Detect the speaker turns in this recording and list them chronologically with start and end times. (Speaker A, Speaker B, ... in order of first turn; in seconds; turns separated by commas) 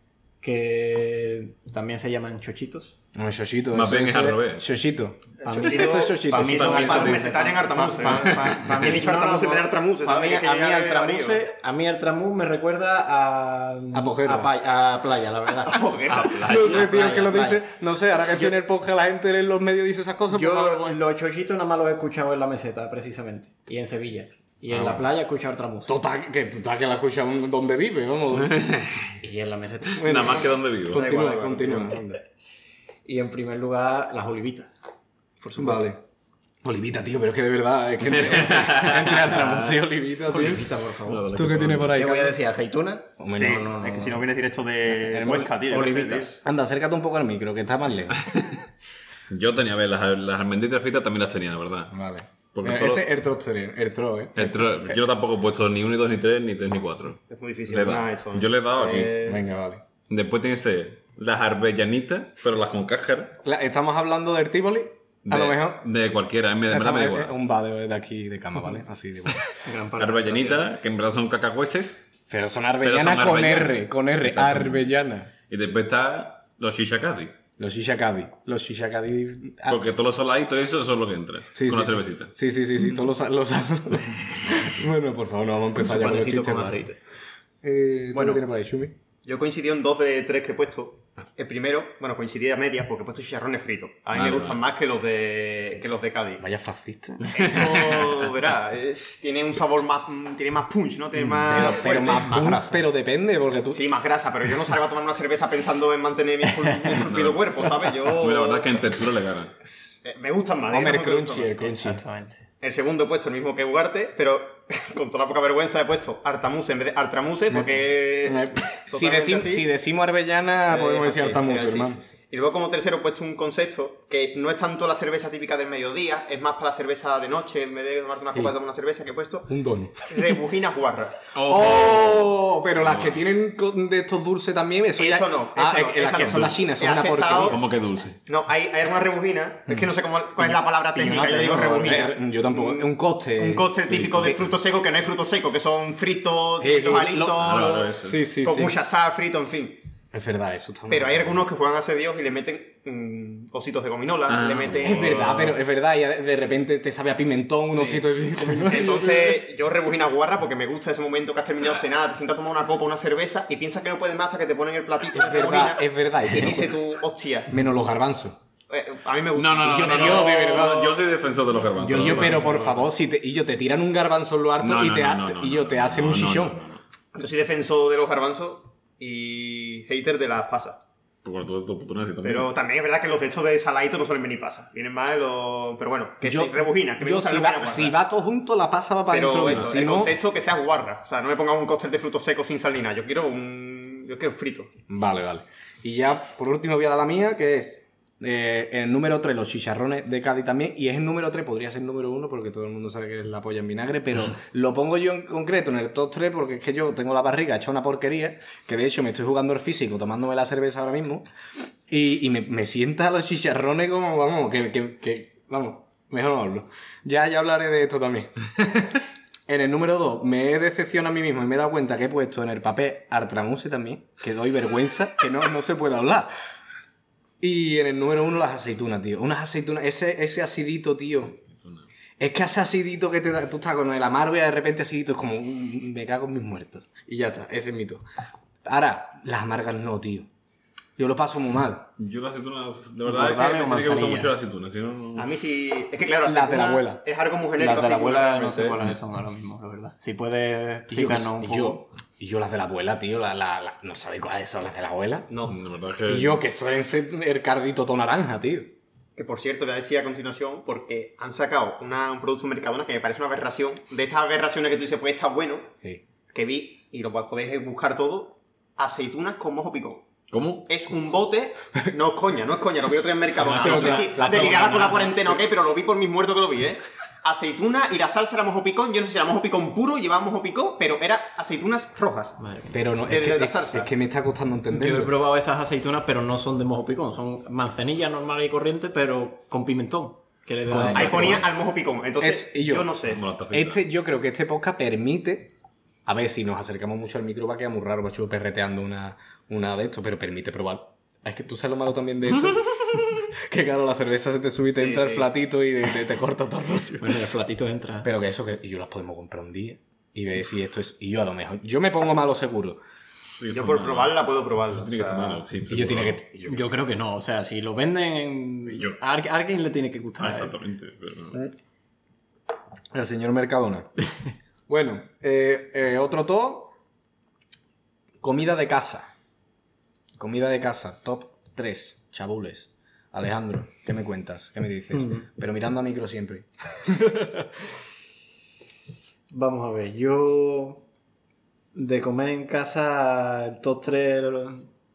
Speaker A: 0.4-3.0, Speaker B: 3.1-8.2, Speaker C: 3.7-4.7, Speaker D: 5.4-11.4, Speaker A: 5.4-15.8, Speaker C: 8.1-8.9, Speaker B: 13.9-15.8, Speaker D: 15.7-16.5, Speaker C: 16.1-17.1, Speaker B: 16.4-21.0, Speaker A: 16.4-17.6, Speaker A: 20.3-25.9, Speaker B: 24.7-25.0, Speaker B: 25.9-28.6, Speaker C: 28.4-29.2, Speaker A: 29.2-30.4, Speaker B: 29.9-32.2, Speaker C: 30.0-31.1, Speaker D: 30.9-32.0, Speaker A: 33.1-34.7, Speaker A: 35.4-35.9, Speaker B: 35.6-36.0, Speaker B: 36.6-40.7, Speaker C: 38.1-39.1, Speaker A: 39.0-41.3, Speaker C: 41.1-42.0, Speaker B: 41.3-42.4, Speaker A: 41.9-44.3, Speaker B: 43.2-43.6, Speaker D: 43.3-46.4, Speaker B: 45.1-45.5, Speaker A: 45.7-46.4, Speaker B: 46.4-48.2, Speaker C: 48.2-48.6, Speaker C: 49.3-51.9, Speaker B: 51.9-55.0, Speaker C: 52.5-53.1, Speaker C: 54.4-59.2, Speaker D: 57.3-59.5, Speaker B: 59.3-59.8, Speaker C: 60.1-63.4, Speaker B: 63.4-65.9, Speaker C: 65.3-67.4, Speaker B: 66.7-69.5, Speaker A: 69.6-70.7, Speaker C: 70.0-72.0, Speaker B: 72.3-75.3, Speaker C: 72.8-74.9, Speaker C: 75.5-77.4, Speaker B: 77.6-79.8, Speaker C: 79.7-82.3, Speaker B: 81.5-86.8, Speaker A: 85.8-87.0, Speaker B: 87.6-88.9, Speaker D: 88.1-88.4, Speaker D: 89.2-96.4, Speaker C: 94.1-94.6, Speaker B: 96.4-97.5, Speaker D: 97.3-102.8, Speaker C: 97.4-98.2, Speaker B: 101.5-103.8, Speaker A: 101.6-102.6, Speaker D: 103.7-108.9, Speaker C: 106.9-107.5, Speaker C: 108.0-109.5, Speaker D: 109.9-111.6, Speaker B: 110.7-112.0, Speaker A: 111.7-112.5, Speaker D: 112.6-119.7, Speaker B: 117.5-122.0, Speaker D: 120.7-131.2, Speaker B: 129.5-130.3, Speaker C: 131.3-133.2, Speaker B: 131.4-137.6, Speaker D: 135.0-137.6, Speaker C: 137.4-138.2, Speaker D: 138.3-149.8, Speaker A: 140.4-142.1, Speaker B: 141.8-143.7, Speaker C: 143.8-144.5, Speaker B: 146.6-148.7, Speaker C: 147.4-148.2, Speaker B: 150.1-151.4, Speaker D: 150.9-155.2, Speaker C: 154.3-155.6, Speaker B: 154.8-159.4, Speaker D: 157.7-167.5, Speaker B: 165.1-166.8, Speaker B: 167.5-168.3, Speaker D: 168.7-171.1, Speaker C: 169.3-172.7, Speaker B: 169.7-171.0, Speaker A: 171.8-172.8, Speaker B: 171.8-176.6, Speaker C: 174.6-176.8, Speaker D: 177.1-180.8, Speaker C: 181.2-182.5, Speaker D: 182.2-188.0, Speaker B: 186.2-190.2, Speaker D: 189.1-194.7, Speaker B: 194.9-211.3, Speaker B: 211.9-218.9, Speaker B: 219.5-226.3, Speaker B: 227.4-231.4, Speaker C: 231.6-231.8, Speaker B: 232.2-238.0, Speaker B: 238.7-240.3, Speaker B: 241.0-241.9, Speaker C: 242.0-245.4, Speaker A: 243.1-244.3, Speaker D: 245.2-248.8, Speaker B: 246.3-247.0, Speaker A: 247.6-251.8, Speaker B: 250.9-255.3, Speaker D: 255.3-255.6, Speaker C: 255.5-256.4, Speaker B: 256.1-258.7, Speaker D: 259.2-265.7, Speaker D: 266.3-270.1, Speaker C: 270.3-270.7, Speaker D: 270.7-282.4, Speaker A: 273.4-275.0, Speaker B: 273.5-275.4, Speaker A: 282.4-282.8, Speaker B: 282.7-285.1, Speaker D: 283.0-283.9, Speaker A: 284.7-291.4, Speaker B: 290.7-291.5, Speaker C: 290.8-291.4, Speaker D: 290.9-293.2, Speaker B: 292.2-292.9, Speaker C: 293.1-293.8, Speaker B: 293.5-295.5, Speaker B: 296.1-307.2, Speaker D: 304.8-305.3, Speaker A: 307.0-308.1, Speaker B: 308.0-312.8, Speaker C: 313.4-316.2, Speaker D: 313.5-315.4, Speaker B: 315.7-316.6, Speaker A: 316.5-320.6, Speaker C: 318.7-319.0, Speaker C: 320.2-321.4, Speaker B: 322.9-323.9, Speaker B: 324.7-326.7, Speaker B: 328.2-329.1, Speaker B: 330.2-337.5, Speaker A: 334.9-335.2, Speaker A: 339.3-340.8, Speaker A: 341.8-344.7